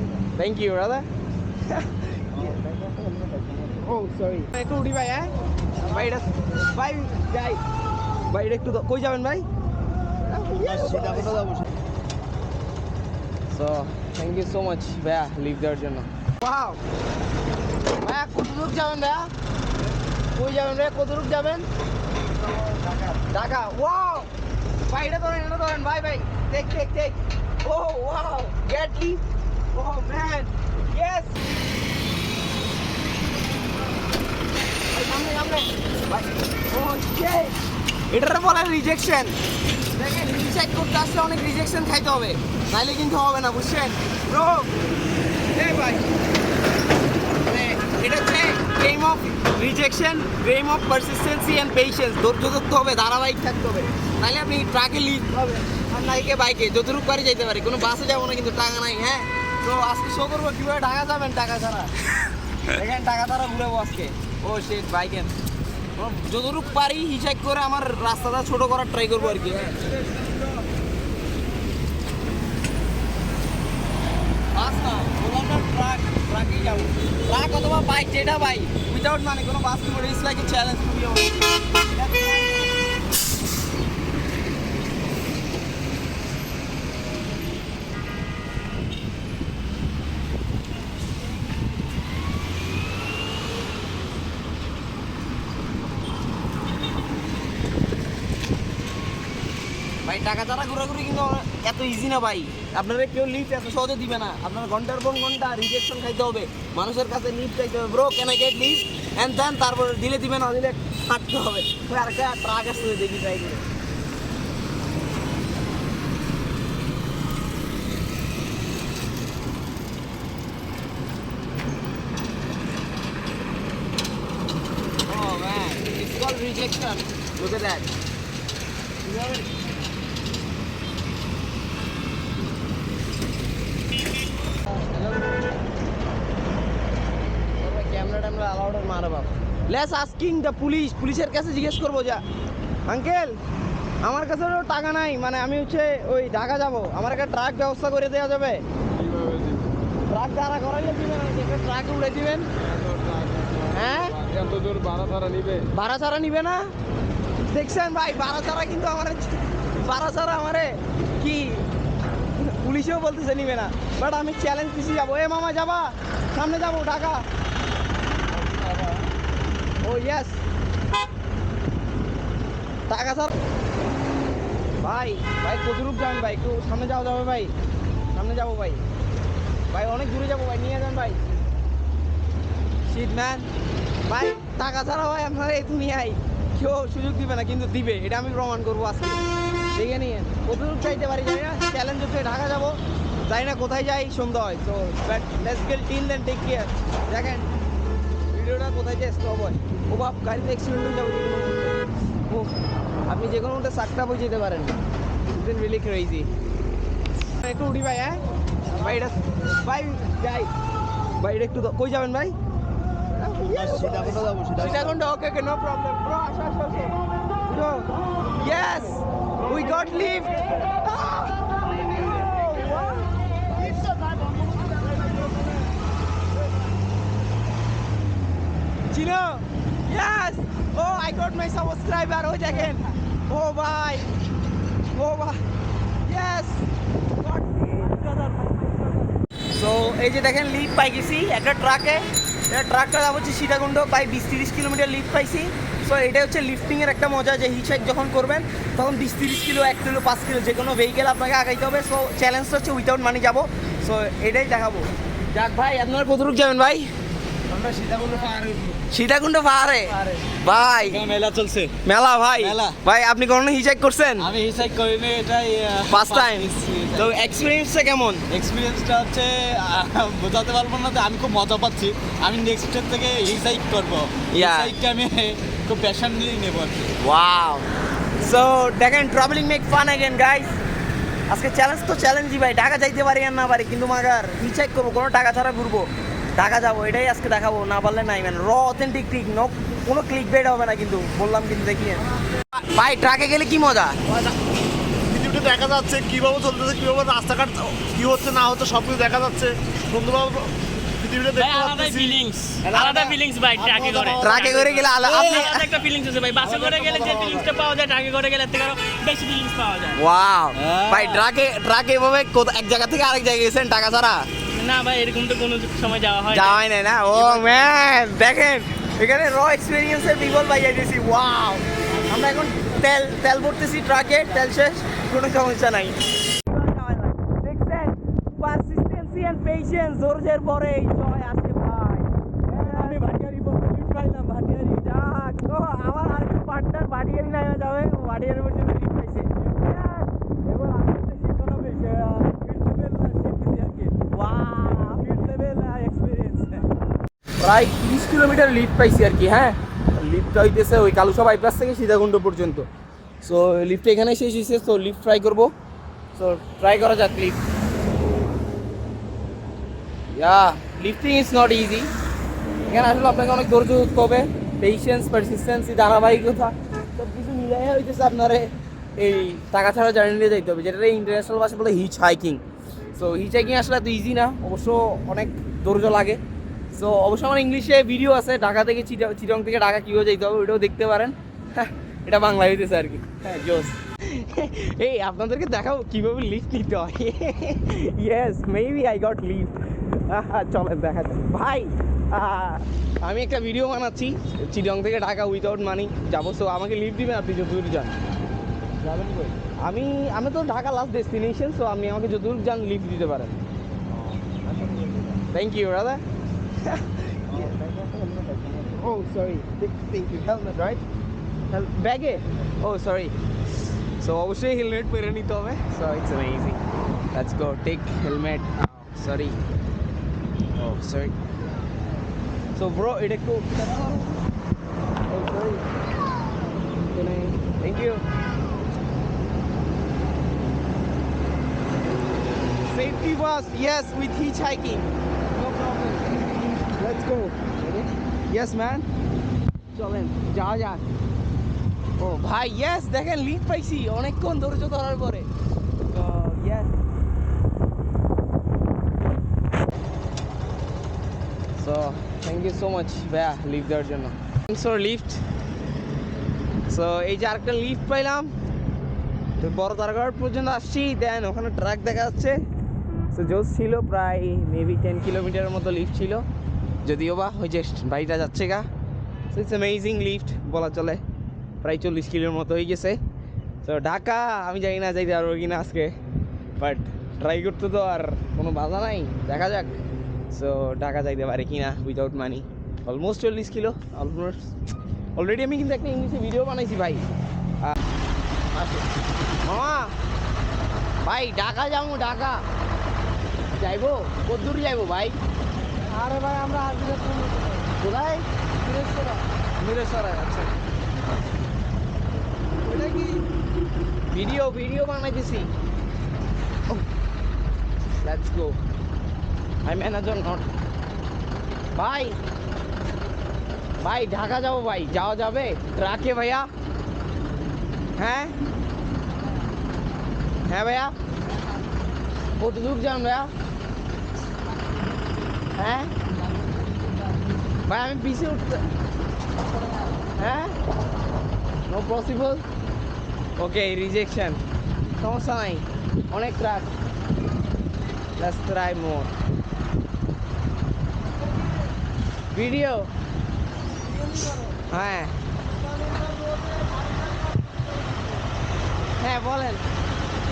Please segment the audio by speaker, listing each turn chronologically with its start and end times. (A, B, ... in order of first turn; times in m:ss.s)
0:00.3-0:01.1 A
0:01.6-0:07.6 A
0:08.3-0:09.5 A
0:10.2-0:11.6 A
0:13.5-0:16.8 A
0:18.0-0:19.3 A
0:20.3-0:21.7 A
0:22.4-0:23.0 B
0:23.1-0:24.3 A
0:24.9-0:31.4 A
0:34.9-0:37.5 A
0:38.1-0:39.4 A
0:39.9-0:44.7 A
0:45.5-0:46.0 A
0:47.4-1:01.9 A
1:02.7-1:05.4 A
1:06.0-1:10.5 A
1:14.5-1:22.7 A
1:40.0-1:53.6 A
2:05.1-2:07.9 A
2:09.0-2:09.4 A
2:17.6-2:22.2 A
2:22.9-2:23.4 A
2:24.0-2:28.6 A
2:29.2-2:29.5 C
2:30.1-2:32.5 A
2:32.9-2:33.6 C
2:33.7-2:34.2 A
2:34.2-2:35.6 C
2:35.7-2:36.7 A
2:37.5-2:41.7 A
2:42.3-2:47.2 A
2:49.8-2:50.4 A
2:52.9-2:53.4 A
2:54.8-2:57.5 A
2:58.1-2:58.8 A
2:59.7-3:01.2 A
3:02.9-3:03.5 A
3:04.0-3:09.2 A
3:09.7-3:17.5 A
3:18.3-3:22.5 A
3:23.1-3:24.8 A
3:25.3-3:26.3 A
3:27.4-3:30.5 A
3:31.2-3:32.3 A
3:33.1-3:43.8 A
3:48.9-3:54.1 A
3:54.9-3:55.4 A
3:56.0-3:56.6 A
3:57.2-3:58.7 A
3:59.5-4:16.9 A
4:17.5-4:18.8 C
4:18.9-4:21.1 A
4:20.8-4:21.7 C
4:21.8-4:24.3 A
4:22.4-4:22.8 C
4:24.2-4:27.5 C
4:25.9-4:28.2 A
4:28.3-4:36.9 C
4:34.3-4:34.7 A
4:37.0-4:37.7 A
4:38.2-4:40.6 A
4:41.3-4:52.1 A
4:52.7-4:54.1 A
4:55.1-5:02.2 B
5:01.4-5:10.0 D
5:02.6-5:03.2 A
5:04.2-5:05.7 A
5:09.9-5:14.3 A
5:10.6-5:11.1 C
5:14.5-5:16.6 D
5:16.3-5:46.7 A
5:17.1-5:17.5 D
5:47.4-5:52.7 A
5:53.2-5:55.5 A
5:56.1-5:57.4 A
6:00.1-6:01.9 A
6:02.7-6:12.4 A
6:12.9-6:16.2 A
6:16.7-6:38.0 A
6:38.8-6:43.4 A
6:44.6-6:45.0 C
6:45.2-6:46.0 A
6:46.6-6:50.8 A
6:51.5-6:53.1 A
6:54.0-6:56.6 A
6:57.1-6:59.5 A
7:00.5-7:01.2 A
7:02.5-7:04.1 A
7:05.1-7:05.6 A
7:06.9-7:08.0 A
7:12.7-7:18.9 A
7:19.7-7:20.8 A
7:22.0-7:25.3 A
7:25.9-7:26.8 A
7:31.6-7:35.2 A
7:36.7-7:38.3 A
7:39.4-7:42.4 A
7:43.1-7:46.2 A
7:46.8-7:48.7 A
7:49.3-7:51.0 A
7:51.6-7:53.0 A
7:53.6-7:56.0 A
7:56.6-8:04.5 A
8:05.2-8:07.1 A
8:08.5-8:08.8 A
8:09.4-8:09.9 A
8:11.0-8:12.4 A
8:13.6-8:15.2 A
8:16.0-8:17.7 C
8:17.7-8:18.2 A
8:18.6-8:19.2 C
8:19.6-8:20.6 A
8:22.6-8:23.2 C
8:24.1-8:25.5 A
8:28.0-8:28.6 A
8:29.6-8:30.4 A
8:31.7-8:32.2 A
8:33.8-8:36.5 A
8:38.0-8:38.3 A
8:40.5-8:41.0 A
8:42.4-8:43.3 A
8:45.5-8:45.9 A
8:46.5-8:47.1 C
8:47.6-8:48.6 A
8:50.1-8:50.6 A
8:51.7-8:52.4 A
8:53.4-8:54.4 A
8:55.0-8:56.7 A
8:58.2-8:59.1 A
9:02.3-9:02.9 A
9:03.9-9:04.5 C
9:04.6-9:05.1 A
9:05.5-9:08.2 C
9:09.0-9:09.6 A